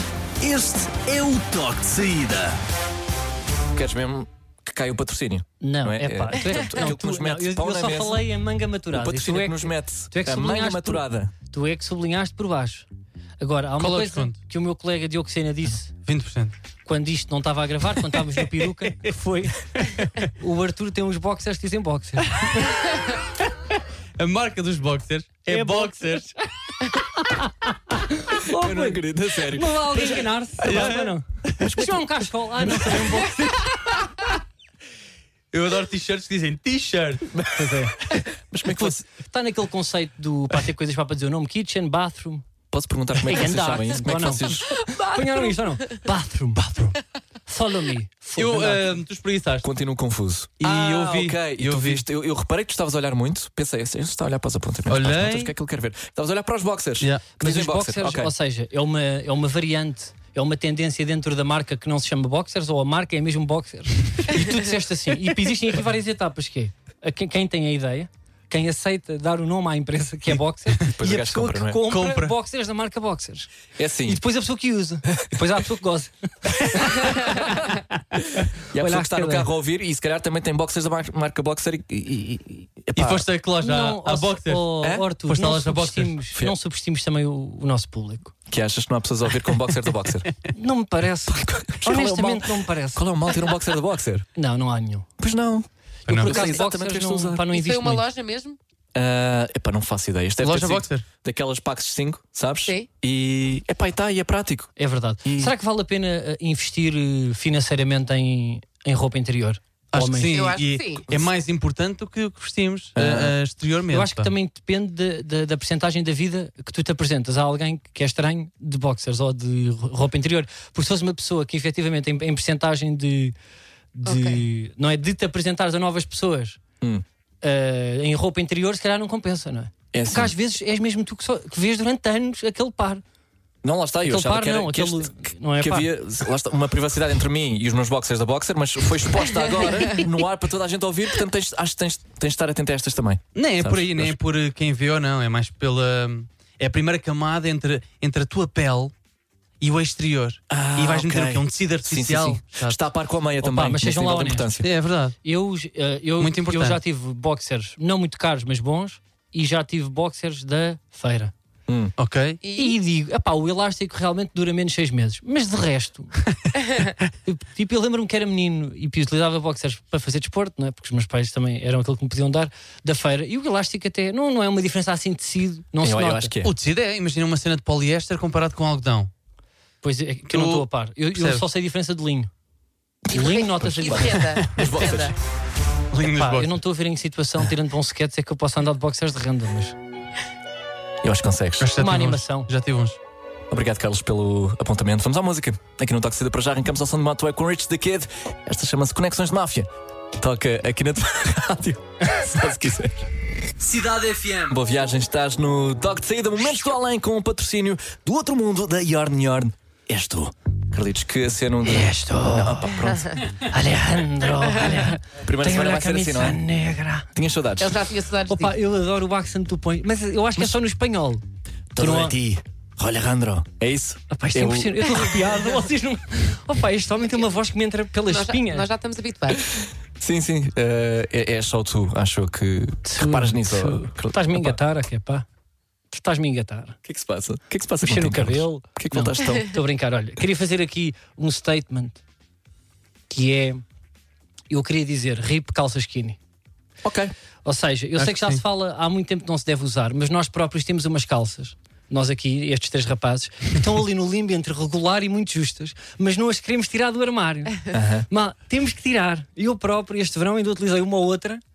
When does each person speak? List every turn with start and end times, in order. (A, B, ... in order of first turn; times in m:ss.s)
0:00.4-0:02.6 A
0:03.7-0:08.2 B
0:05.6-0:12.9 C
0:08.9-0:11.3 B
0:13.4-0:15.9 C
0:13.8-0:14.4 D
0:16.1-0:16.5 D
0:16.9-0:22.8 C
0:19.8-0:20.1 D
0:24.2-0:26.3 D
0:25.5-0:34.0 C
0:28.4-0:30.0 B
0:30.6-0:31.1 D
0:31.6-0:32.0 B
0:35.5-0:37.3 D
0:37.3-0:39.0 B
0:37.5-0:38.0 C
0:38.8-0:42.4 C
0:42.7-0:44.9 B
0:43.2-0:49.0 C
0:44.9-0:45.4 E
0:48.4-0:49.7 D
0:49.6-0:58.3 B
0:50.6-0:52.0 D
0:54.9-0:55.5 D
0:57.4-1:13.5 C
1:10.9-1:11.8 B
1:11.9-1:12.3 D
1:13.8-1:14.2 B
1:14.0-1:17.7 C
1:16.7-1:17.5 B
1:18.7-1:23.2 B
1:18.7-1:19.5 C
1:22.9-1:24.7 D
1:23.6-1:28.3 C
1:25.3-1:26.2 D
1:28.5-1:30.3 B
1:30.5-1:33.0 C
1:31.3-1:34.3 B
1:34.4-1:35.1 C
1:35.2-1:37.4 B
1:36.1-1:36.4 D
1:36.1-1:38.0 C
1:37.5-1:38.6 E
1:39.0-1:44.7 B
1:40.4-1:41.0 D
1:44.8-1:50.5 C
1:45.2-1:45.5 B
1:49.9-1:54.3 D
1:50.3-1:51.0 E
1:53.0-1:53.3 B
1:53.9-2:03.4 C
2:04.0-2:06.6 C
2:04.0-2:04.4 E
2:07.4-2:13.0 C
2:09.9-2:10.3 B
2:13.6-2:24.2 B
2:14.0-2:15.9 C
2:23.4-2:28.9 D
2:29.6-2:32.8 D
2:30.5-2:34.7 B
2:33.4-2:34.6 C
2:34.6-2:35.2 D
2:35.2-2:41.3 C
2:36.2-2:36.8 D
2:41.7-2:41.9 B
2:42.0-2:42.4 D
2:42.4-2:42.8 E
2:42.5-2:46.1 C
2:47.2-2:56.3 C
2:55.8-2:56.5 B
2:56.4-2:59.1 D
2:59.8-3:02.3 C
3:00.3-3:01.4 D
3:03.1-3:04.2 C
3:03.1-3:05.1 E
3:03.3-3:05.2 B
3:05.9-3:06.6 D
3:06.0-3:09.8 C
3:11.0-3:11.7 B
3:11.6-3:13.0 D
3:11.8-3:12.5 C
3:13.5-3:23.0 B
3:23.6-3:24.5 D
3:24.5-3:33.2 B
3:31.7-3:32.8 C
3:33.4-3:37.1 C
3:35.2-3:36.4 B
3:37.2-3:37.8 B
3:37.6-3:38.6 E
3:38.3-3:41.2 C
3:41.7-3:45.0 B
3:41.8-3:42.2 C
3:44.1-3:48.7 C
3:48.1-3:49.4 E
3:49.3-3:54.6 B
3:52.8-3:55.3 C
3:55.9-3:56.8 C
3:56.8-3:59.5 B
3:57.8-4:02.0 C
4:03.1-4:03.6 C
4:04.5-4:06.2 C
4:06.8-4:07.1 B
4:07.4-4:21.4 C
4:08.0-4:08.4 D
4:17.7-4:18.1 B